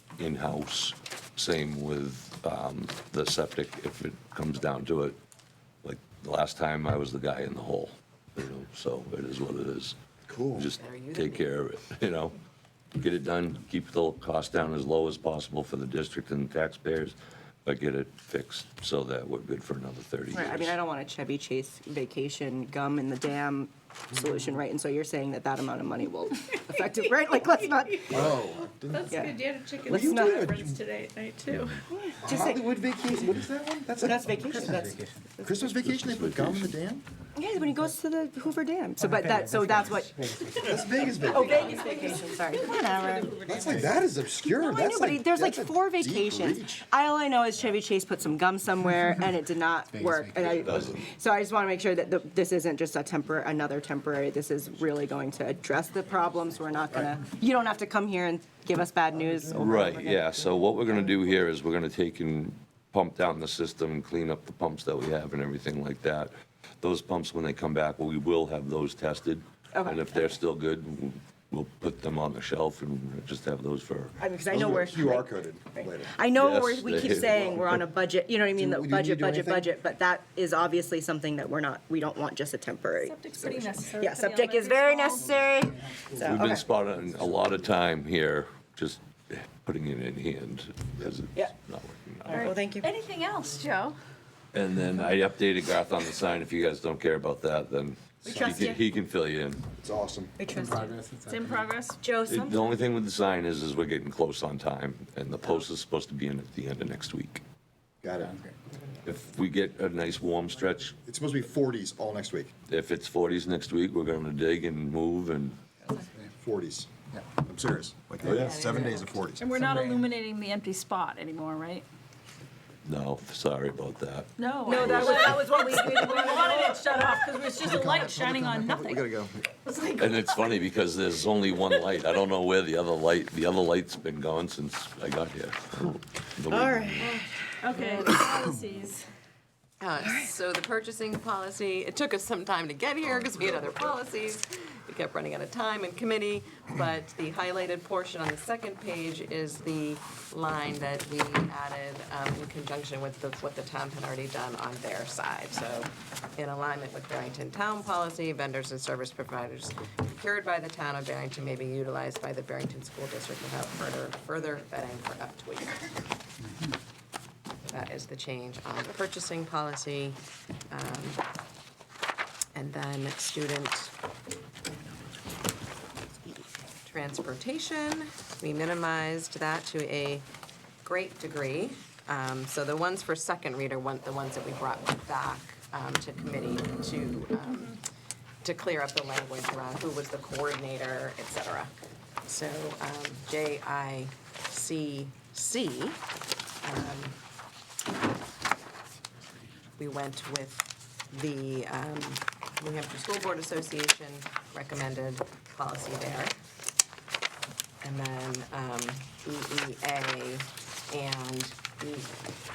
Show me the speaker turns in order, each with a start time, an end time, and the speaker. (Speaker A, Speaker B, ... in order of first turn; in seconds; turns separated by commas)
Speaker A: 0.2-5.2, Speaker A: 5.8-9.9, Speaker B: 10.3-10.7, Speaker A: 10.5-12.3, Speaker C: 10.7-11.5, Speaker A: 13.0-20.8, Speaker D: 20.3-28.3, Speaker B: 28.1-29.1, Speaker E: 28.9-31.4, Speaker D: 29.1-30.5, Speaker B: 29.9-30.8, Speaker D: 31.9-33.4, Speaker B: 32.2-37.0, Speaker D: 34.0-35.6, Speaker A: 35.8-36.7, Speaker D: 37.4-43.4, Speaker B: 39.5-41.8, Speaker E: 40.6-44.0, Speaker B: 43.4-46.8, Speaker D: 44.5-61.0, Speaker B: 50.0-50.4, Speaker A: 50.5-51.0, Speaker A: 59.6-74.2, Speaker D: 69.7-70.4, Speaker D: 74.2-86.6, Speaker B: 74.5-76.2, Speaker A: 76.3-77.8, Speaker B: 77.4-77.6, Speaker B: 78.5-79.7, Speaker E: 83.0-85.3, Speaker B: 85.9-86.4, Speaker A: 86.2-92.5, Speaker D: 92.3-92.9, Speaker E: 92.3-94.0, Speaker A: 94.5-99.7, Speaker D: 98.2-98.8, Speaker B: 99.7-101.7, Speaker D: 100.4-101.0, Speaker E: 101.2-102.0, Speaker D: 102.0-102.8, Speaker A: 102.2-107.4, Speaker B: 108.0-108.5, Speaker A: 109.0-111.0, Speaker B: 111.0-112.5, Speaker A: 112.7-115.6, Speaker B: 116.4-120.0, Speaker A: 118.2-118.8, Speaker C: 118.3-119.0, Speaker E: 119.4-121.9, Speaker A: 122.8-125.5, Speaker E: 124.4-130.1, Speaker D: 124.7-126.8, Speaker B: 127.6-129.4, Speaker A: 130.0-137.2, Speaker D: 136.5-137.6, Speaker E: 137.6-139.1, Speaker C: 137.7-138.2, Speaker C: 139.8-166.0, Speaker D: 140.0-140.3, Speaker C: 167.7-171.2, Speaker C: 172.5-173.9, Speaker C: 176.8-180.2, Speaker C: 180.8-187.8, Speaker E: 187.4-187.8, Speaker C: 188.4-191.7, Speaker C: 192.3-196.0, Speaker C: 196.6-197.2, Speaker C: 199.8-206.3, Speaker C: 207.8-212.2